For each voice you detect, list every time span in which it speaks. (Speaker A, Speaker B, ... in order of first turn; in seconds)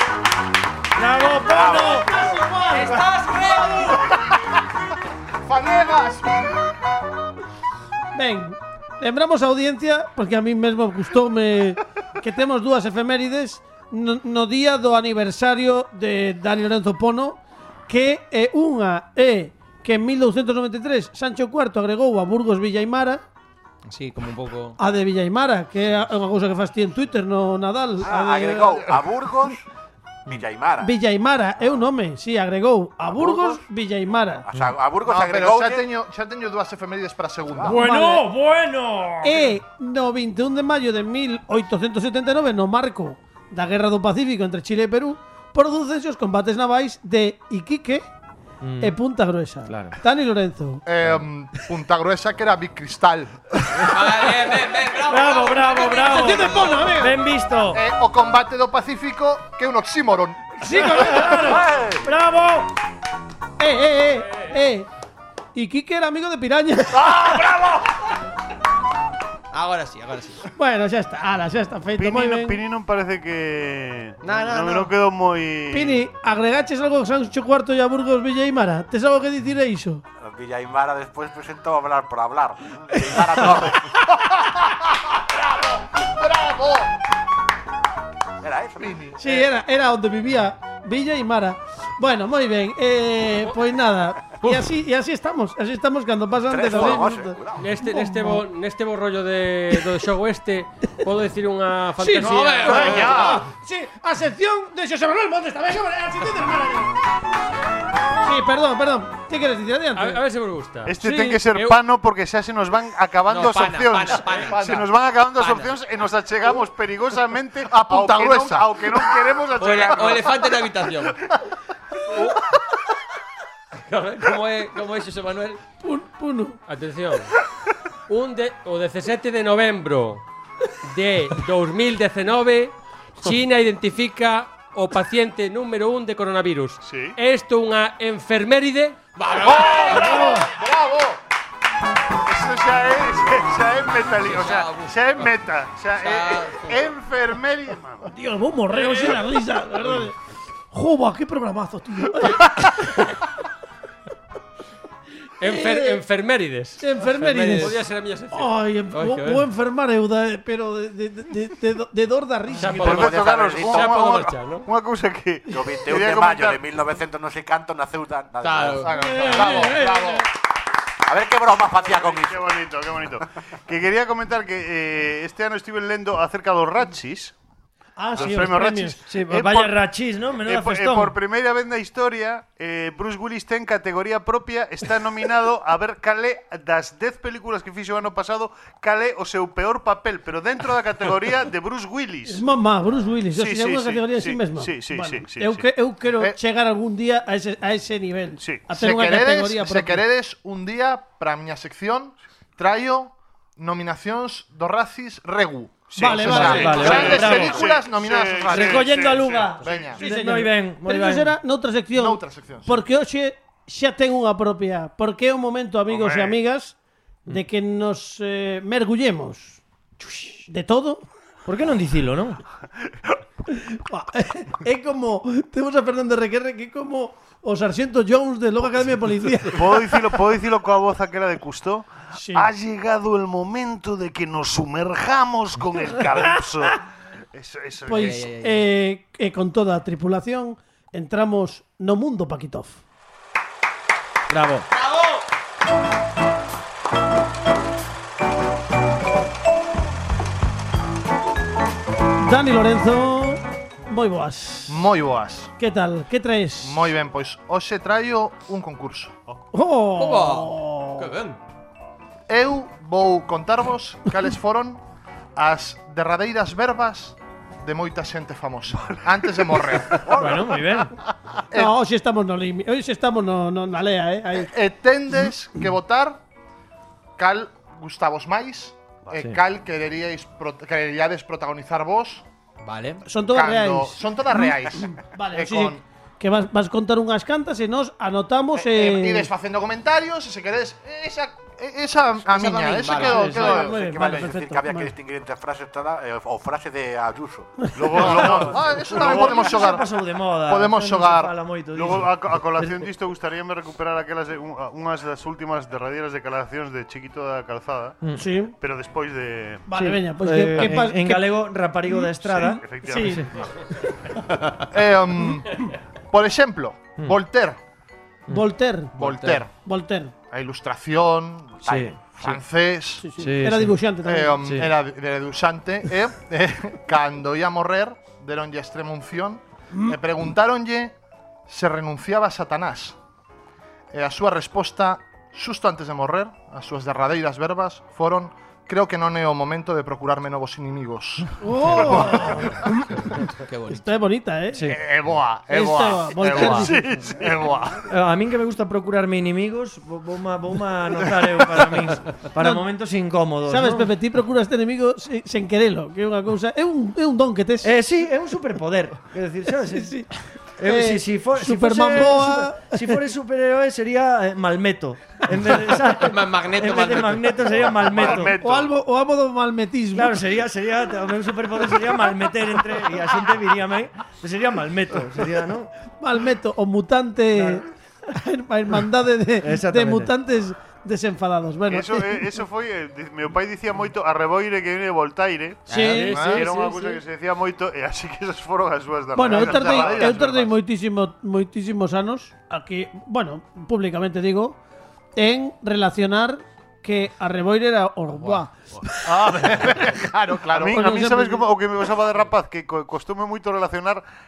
Speaker A: 1.0-2.1, 37.6-39.6, 48.6-49.0, 49.7-50.0, 55.0-57.8, 60.9-62.7, 179.1-181.2, 206.0-207.7, 208.5-211.3, 221.5-222.4, 244.3-244.7, 270.1-270.9, 293.1-293.4, 298.0-302.9, 309.7-313.3, 321.7-322.4, 323.2-323.8, 324.4-324.7, 344.5-344.8, 347.9-353.9, 357.6-359.9, 360.6-368.4, 369.9-375.7, 377.4-377.6, 379.4-380.1
Speaker B: 1.3-3.1, 8.2-23.2, 24.8-28.9, 30.8-34.5, 37.7-38.3, 39.2-48.1, 48.8-50.9, 56.1-57.1, 60.6-61.7, 63.6-64.9, 65.5-67.5, 70.6-72.6, 75.7-80.0, 89.2-98.5, 102.0-106.9, 108.2-110.2, 111.0-111.4, 125.8-126.6, 148.0-150.2, 150.7-152.5, 155.4-156.1, 156.8-157.8, 158.3-163.1, 168.9-170.2, 178.0-179.0, 192.3-200.0, 206.0-207.3, 210.0-216.8, 217.3-221.1, 223.5-229.9, 232.1-232.5, 237.9-242.8, 252.2-254.8, 255.6-256.9, 259.5-261.1, 271.5-274.5, 283.1-289.3, 293.0-294.9, 308.1-308.6, 309.7-311.3, 312.8-313.3, 318.3-318.9, 319.6-320.1, 323.0-324.4, 341.4-343.1, 343.7-344.6, 345.5-347.1, 352.4-352.6, 353.5-357.7, 359.7-363.0, 368.4-370.2, 376.0-382.2, 385.7-387.0, 389.1-394.6, 395.2-398.5, 400.8-401.5
Speaker C: 2.8-4.0, 23.9-24.8, 53.9-56.8, 69.5-70.5, 74.2-74.9, 102.3-102.9, 113.3-114.8, 115.3-115.7, 119.6-121.1, 123.9-125.6, 139.2-140.4, 144.2-145.3, 146.0-146.8, 157.2-157.8, 168.4-168.9, 237.9-238.6, 244.8-245.2, 260.0-261.4, 282.6-283.0, 292.3-293.2, 319.0-319.4, 343.2-343.9, 365.8-367.7, 385.7-386.1
Speaker D: 5.4-6.6, 35.0-37.8, 50.9-53.7, 57.7-61.0, 84.1-87.0, 88.8-89.5, 102.7-103.5, 114.4-114.8, 117.6-119.0, 139.4-141.2, 168.8-170.3, 198.8-208.9, 209.6-210.0, 211.9-212.8, 254.7-255.5, 256.6-259.1, 262.3-264.8, 265.4-270.1, 271.5-271.8, 274.3-276.2, 277.2-282.2, 283.3-285.8, 288.5-293.9, 297.9-299.9, 300.5-301.3, 314.7-317.6, 319.0-319.5, 320.3-323.2, 324.0-330.9, 331.5-333.0, 333.9-342.3, 344.7-347.8, 386.1-386.5, 389.4-390.1, 399.1-400.9
Speaker E: 28.0-29.6, 30.3-30.9, 33.1-33.6, 34.5-35.8, 61.5-62.0, 80.2-83.9, 88.4-88.9, 96.5-97.7, 162.8-164.3, 165.5-169.7, 171.1-172.6, 292.9-297.7, 321.7-321.9
Speaker F: 72.0-76.0, 110.9-120.5, 136.8-137.2, 142.2-148.1, 162.7-166.6, 171.8-177.3, 178.1-179.8, 180.4-192.4, 193.3-195.7, 198.4-198.7, 205.9-210.0, 215.9-216.4, 229.5-238.3, 268.9-270.4, 297.7-299.5, 301.7-308.0, 308.6-309.6, 312.2-313.5, 346.4-347.5, 367.5-368.7, 381.7-390.6, 400.5-404.0
Speaker G: 97.6-103.4, 110.0-111.8, 126.7-127.3, 128.1-130.2, 130.8-139.0, 148.8-149.2, 152.2-153.1, 155.4-159.4, 162.6-164.7, 385.8-386.8